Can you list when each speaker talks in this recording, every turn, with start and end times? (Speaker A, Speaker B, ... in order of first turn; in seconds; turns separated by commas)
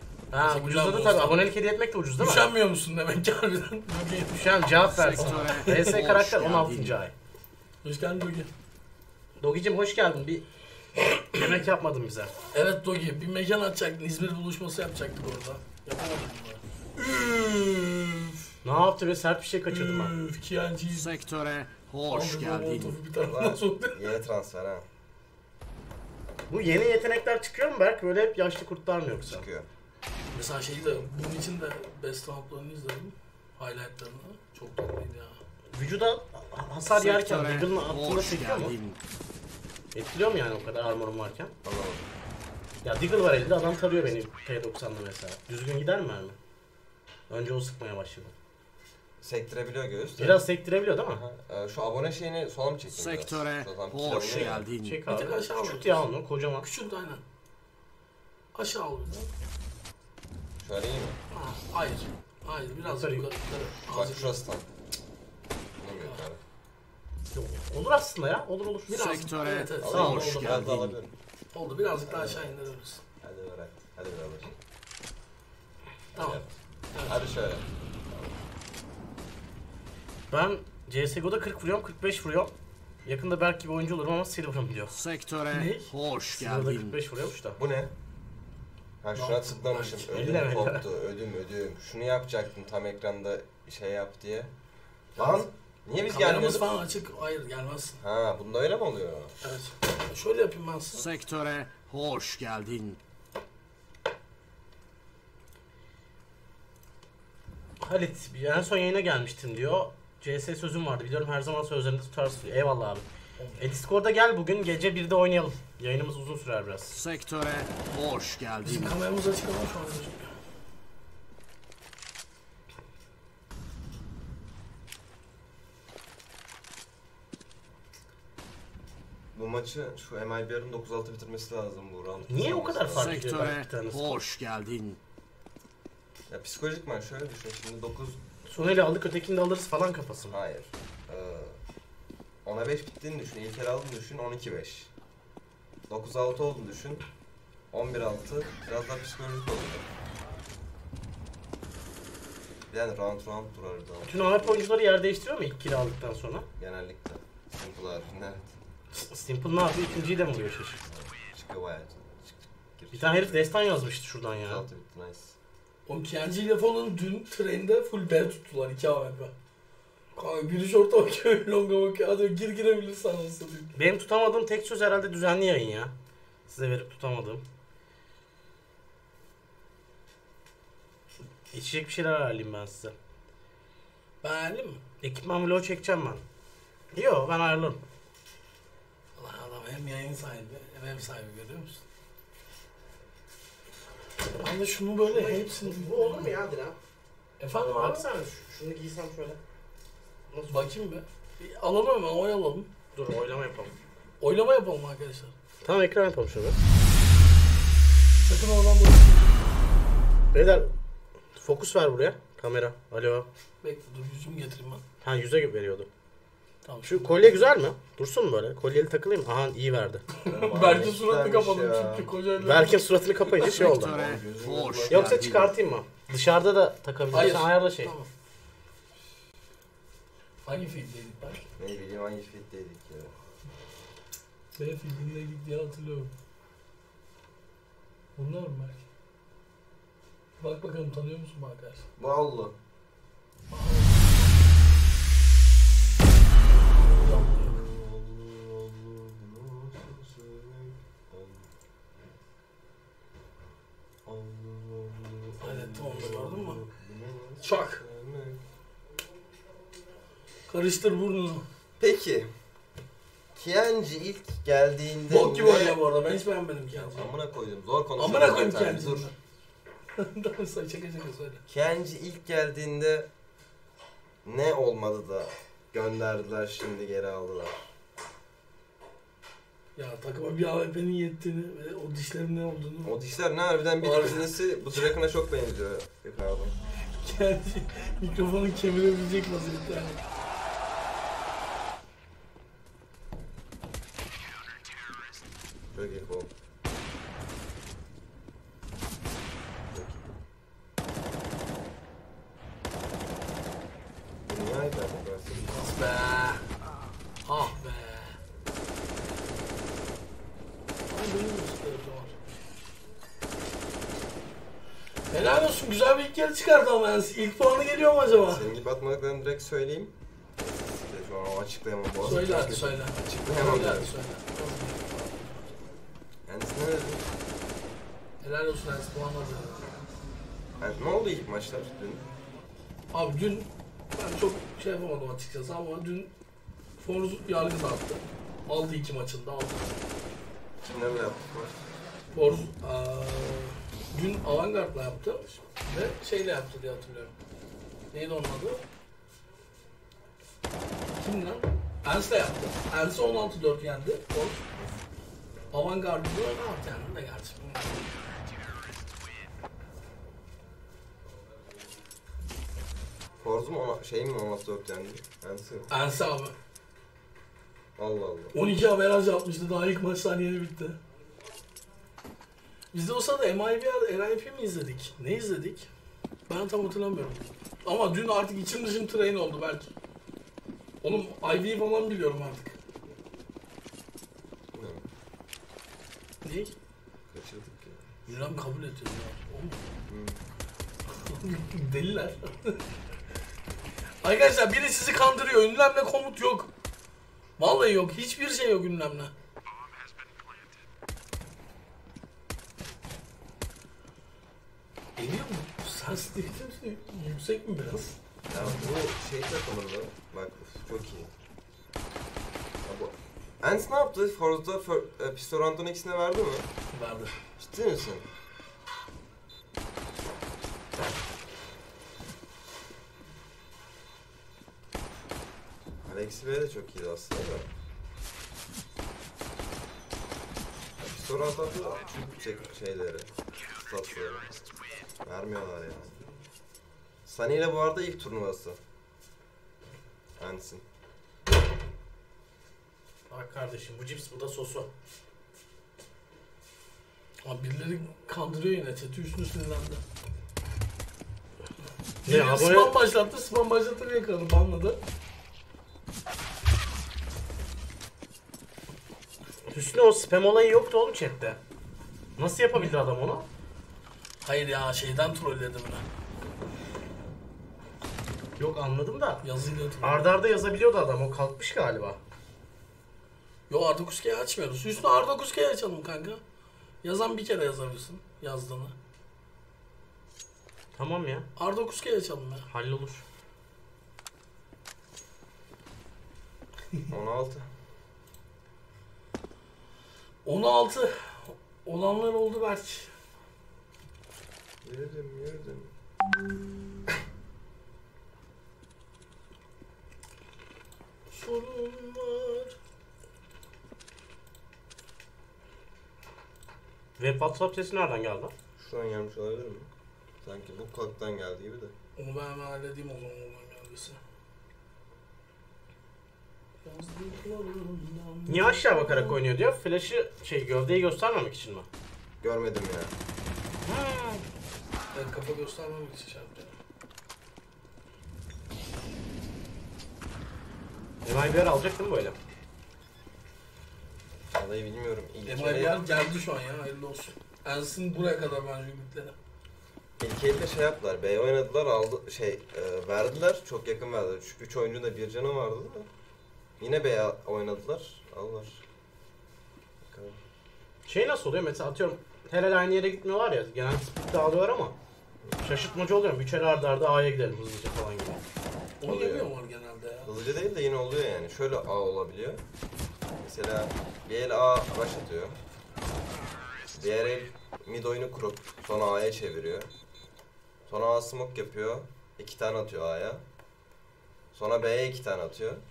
Speaker A: 0.3-2.5, Speaker B: 0.3-1.5, Speaker B: 2.2-4.7, Speaker A: 4.3-7.1, Speaker C: 4.8-7.0, Speaker B: 5.2-5.9, Speaker B: 7.8-8.5, Speaker A: 9.4-10.4, Speaker A: 11.2-12.3, Speaker B: 12.5-18.4, Speaker A: 18.6-20.1, Speaker B: 19.7-21.1, Speaker C: 20.9-23.0, Speaker B: 22.1-24.1, Speaker D: 23.2-24.9, Speaker A: 26.5-29.4, Speaker D: 29.2-29.7, Speaker B: 30.3-35.4, Speaker A: 35.7-38.7, Speaker C: 36.9-39.0, Speaker A: 39.9-41.5, Speaker D: 41.6-42.1, Speaker A: 42.8-46.4, Speaker A: 47.3-48.3, Speaker D: 49.2-50.4, Speaker A: 50.2-51.2, Speaker D: 51.1-54.7, Speaker C: 52.9-55.0, Speaker A: 54.8-56.7, Speaker B: 55.1-57.2, Speaker B: 58.5-59.3, Speaker D: 60.6-61.2, Speaker B: 61.3-64.3, Speaker A: 62.8-63.3, Speaker D: 63.9-64.7, Speaker D: 65.8-66.4, Speaker A: 67.3-69.0, Speaker B: 68.9-70.7, Speaker C: 68.9-71.0, Speaker D: 69.8-71.1, Speaker A: 70.0-70.4, Speaker B: 71.5-73.0, Speaker D: 72.0-72.6, Speaker D: 73.2-74.5, Speaker D: 76.1-76.5, Speaker B: 76.2-76.4, Speaker B: 76.9-77.3, Speaker D: 77.0-77.7, Speaker A: 80.3-82.5, Speaker A: 83.0-84.9, Speaker C: 84.9-87.0, Speaker B: 85.5-85.9, Speaker A: 86.3-87.6, Speaker D: 87.6-87.9, Speaker D: 89.0-94.5, Speaker B: 89.1-90.4, Speaker A: 90.1-90.8, Speaker D: 95.2-96.7, Speaker B: 95.2-95.4, Speaker B: 96.1-98.0, Speaker D: 98.0-99.4, Speaker B: 99.4-101.1, Speaker C: 100.9-103.0, Speaker A: 107.8-113.0, Speaker B: 113.4-113.7, Speaker A: 113.6-117.0, Speaker C: 116.9-119.0, Speaker B: 118.6-120.3, Speaker D: 129.3-133.2, Speaker A: 132.3-134.0, Speaker C: 132.9-135.0, Speaker D: 136.3-138.2, Speaker A: 138.4-140.4, Speaker D: 140.3-141.6, Speaker D: 142.4-144.9, Speaker D: 145.9-147.0, Speaker D: 147.7-149.9, Speaker D: 152.7-154.6, Speaker A: 154.1-156.5, Speaker D: 156.6-158.5, Speaker A: 158.9-160.8, Speaker D: 160.8-163.5, Speaker A: 162.9-164.7, Speaker D: 164.4-165.3, Speaker B: 165.9-169.3, Speaker B: 170.1-173.7, Speaker A: 173.7-175.9, Speaker A: 176.5-177.4, Speaker A: 181.5-182.9, Speaker B: 184.2-184.8, Speaker A: 185.0-186.2, Speaker A: 186.9-187.8, Speaker B: 189.2-191.8, Speaker B: 194.4-196.4, Speaker A: 195.1-196.8, Speaker B: 197.4-198.1, Speaker A: 197.6-199.4, Speaker A: 200.3-200.7, Speaker B: 200.5-202.7, Speaker A: 202.9-203.7, Speaker B: 204.2-205.3, Speaker A: 205.6-206.6, Speaker B: 208.2-209.5, Speaker A: 210.3-210.7, Speaker A: 211.3-213.3, Speaker B: 213.6-214.8, Speaker A: 215.0-215.9, Speaker B: 216.6-217.4, Speaker A: 216.8-220.0, Speaker B: 220.2-223.5, Speaker D: 220.3-222.1, Speaker A: 222.4-224.0, Speaker C: 223.4-225.5, Speaker D: 223.8-225.5, Speaker A: 224.9-227.9, Speaker B: 227.1-228.1, Speaker B: 230.4-231.4, Speaker D: 231.6-233.1, Speaker B: 234.5-236.1, Speaker B: 238.2-238.8, Speaker B: 240.4-241.8, Speaker D: 242.0-242.6, Speaker B: 243.5-244.3, Speaker D: 246.7-251.5, Speaker B: 246.8-247.6, Speaker D: 254.1-258.4, Speaker B: 255.4-256.6, Speaker B: 257.4-257.8, Speaker B: 260.5-261.5, Speaker D: 261.8-262.3, Speaker D: 263.3-265.8, Speaker B: 265.1-267.1, Speaker D: 266.8-269.1, Speaker B: 268.0-269.1, Speaker B: 269.9-271.4, Speaker D: 271.5-273.1, Speaker D: 274.2-277.6, Speaker B: 279.8-283.0, Speaker D: 282.8-286.5, Speaker B: 283.8-284.4, Speaker B: 286.9-290.0, Speaker D: 295.7-296.3, Speaker D: 299.7-300.1, Speaker D: 304.2-305.5, Speaker B: 305.3-306.4, Speaker B: 307.2-308.2, Speaker B: 310.9-312.2, Speaker B: 315.1-318.4, Speaker D: 318.2-323.9, Speaker B: 322.0-325.4, Speaker D: 326.3-327.1, Speaker B: 328.2-329.8, Speaker D: 330.6-332.1, Speaker B: 332.9-336.1, Speaker B: 336.8-339.8, Speaker D: 340.6-341.6, Speaker B: 342.1-347.1, Speaker B: 347.9-348.6, Speaker B: 351.0-354.4, Speaker B: 355.5-357.9, Speaker D: 363.2-365.7, Speaker B: 365.7-366.3, Speaker D: 367.8-368.3, Speaker B: 368.3-370.8, Speaker B: 372.7-375.7, Speaker B: 376.3-379.7, Speaker B: 380.8-382.6, Speaker D: 384.5-384.9, Speaker B: 386.2-386.5, Speaker D: 387.1-387.9, Speaker B: 388.1-389.6, Speaker D: 389.9-390.2, Speaker B: 390.9-392.7, Speaker B: 394.0-396.5, Speaker B: 397.4-399.1, Speaker B: 405.0-408.5, Speaker D: 408.3-411.1, Speaker D: 412.6-416.5, Speaker B: 416.7-417.1, Speaker D: 417.4-418.1, Speaker D: 425.8-427.5, Speaker D: 430.8-433.1, Speaker D: 433.6-434.5, Speaker D: 435.0-435.9, Speaker D: 437.1-438.6, Speaker D: 440.2-440.6, Speaker A: 443.1-444.7, Speaker B: 447.2-449.8, Speaker B: 452.0-454.8, Speaker A: 452.1-452.7, Speaker A: 459.5-461.4, Speaker A: 462.2-463.2, Speaker B: 464.2-465.8, Speaker A: 468.4-469.2, Speaker B: 469.2-470.1, Speaker A: 469.8-472.0, Speaker B: 473.5-476.2, Speaker B: 476.8-478.7, Speaker A: 480.7-481.3, Speaker B: 481.4-482.5, Speaker A: 482.5-483.0, Speaker D: 486.9-487.5, Speaker B: 490.2-492.9, Speaker D: 494.6-495.7, Speaker B: 501.1-502.5, Speaker A: 507.0-508.3, Speaker D: 508.6-509.7, Speaker D: 510.2-511.7, Speaker B: 512.0-514.0, Speaker B: 516.6-519.2, Speaker A: 518.3-521.7, Speaker D: 522.2-522.9, Speaker A: 523.6-524.2, Speaker B: 524.9-526.5, Speaker A: 531.0-532.2, Speaker D: 534.3-535.8, Speaker B: 535.2-539.1, Speaker D: 540.0-545.9, Speaker D: 546.6-548.6, Speaker D: 549.8-550.2, Speaker A: 550.9-554.8, Speaker A: 555.4-558.2, Speaker B: 558.8-560.1, Speaker D: 558.8-559.3, Speaker D: 560.0-562.4, Speaker D: 563.2-565.4, Speaker D: 566.7-569.7, Speaker D: 570.7-573.2, Speaker D: 574.3-575.6